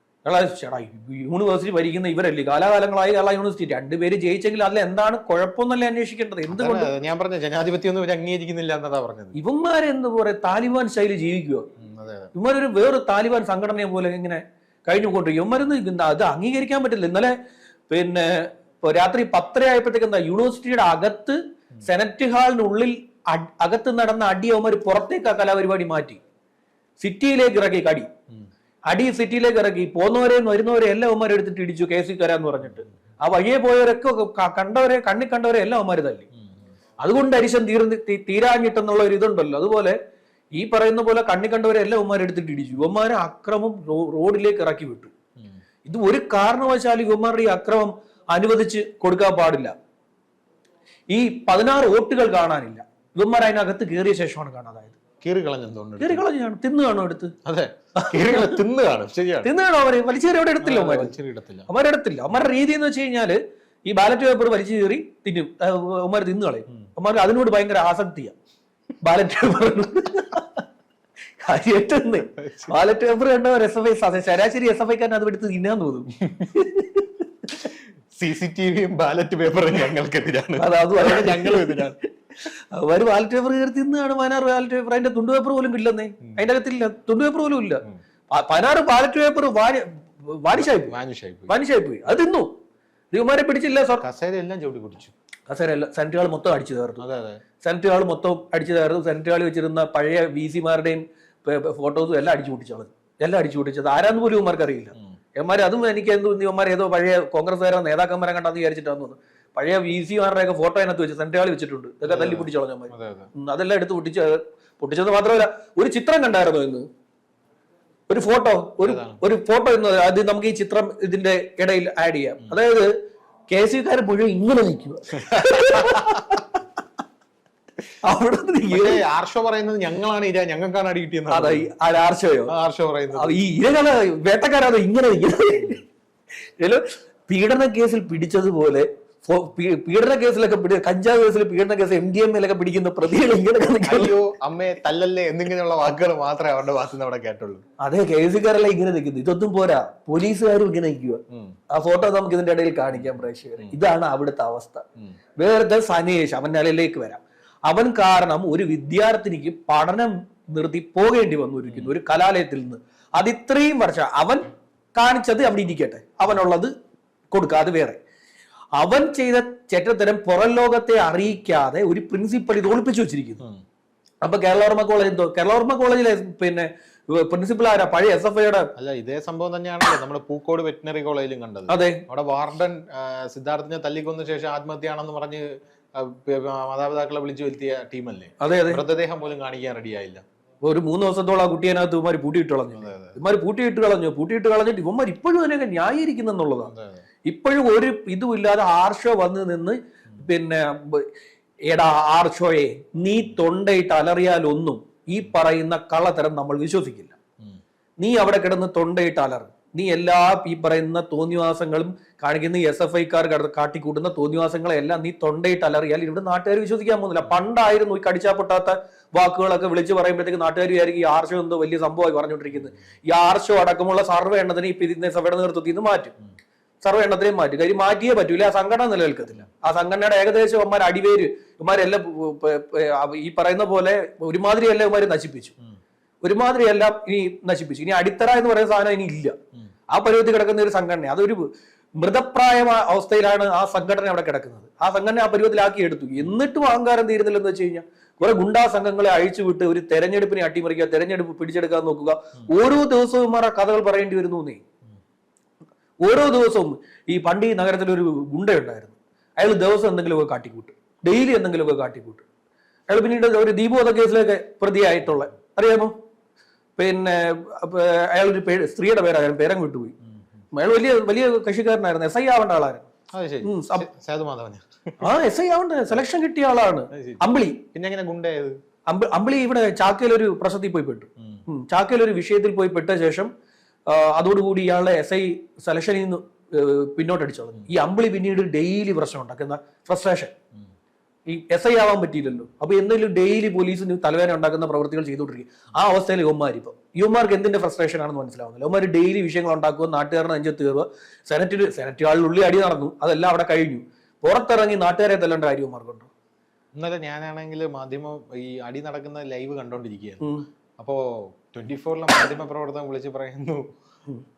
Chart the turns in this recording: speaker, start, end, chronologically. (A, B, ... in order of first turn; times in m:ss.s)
0:00.2-0:06.9 A
0:06.5-0:09.4 B
0:09.3-0:11.7 A
0:11.8-0:12.3 B
0:12.3-0:17.3 A
0:17.9-0:26.2 A
0:27.0-0:28.1 A
0:28.9-0:36.2 A
0:36.4-0:36.7 B
0:37.0-0:40.0 A
0:40.6-0:45.1 A
0:45.8-0:49.7 A
0:51.1-0:55.0 A
0:55.2-0:56.2 B
0:56.0-0:57.3 A
0:57.4-0:59.5 B
0:58.0-0:58.6 A
0:59.4-1:01.1 A
1:00.6-1:01.7 B
1:01.7-1:08.3 A
1:09.0-1:10.6 A
1:11.4-1:17.6 A
1:12.4-1:12.7 B
1:18.1-1:21.9 B
1:20.6-1:30.9 A
1:30.6-1:31.6 B
1:31.5-1:32.5 A
1:33.1-1:34.0 A
1:34.0-1:35.1 B
1:35.5-1:37.0 A
1:37.0-1:37.4 B
1:37.6-1:56.8 A
1:52.0-1:53.3 B
1:58.1-2:02.9 A
1:58.8-1:59.2 B
2:03.5-2:06.6 A
2:05.3-2:06.2 B
2:08.0-2:09.0 A
2:08.7-2:11.7 B
2:11.3-2:12.5 A
2:12.5-2:13.4 B
2:13.1-2:15.8 A
2:16.6-2:24.1 A
2:23.8-2:27.6 B
2:27.8-2:34.8 A
2:31.3-2:31.6 B
2:32.9-2:33.8 B
2:35.4-2:46.7 A
2:41.7-2:41.9 B
2:47.3-2:48.0 A
2:48.8-2:53.4 A
2:54.2-2:58.7 A
2:58.8-3:10.2 B
3:01.7-3:02.0 A
3:08.4-3:08.8 A
3:10.6-3:16.7 A
3:12.7-3:13.2 B
3:16.6-3:17.0 B
3:17.2-3:21.1 A
3:21.7-3:27.2 A
3:28.0-3:46.1 A
3:46.8-3:55.5 A
3:56.2-3:59.3 A
3:59.9-4:14.6 A
4:16.0-4:22.2 A
4:22.9-4:25.9 A
4:26.8-4:29.9 A
4:30.5-4:32.9 A
4:33.1-4:35.1 B
4:33.4-4:33.8 A
4:35.0-4:37.6 A
4:36.9-4:37.2 B
4:37.7-4:38.6 B
4:38.9-4:43.3 A
4:41.2-4:41.4 B
4:43.9-4:50.3 A
4:51.3-5:06.1 A
5:06.7-5:10.2 B
5:10.8-5:13.7 B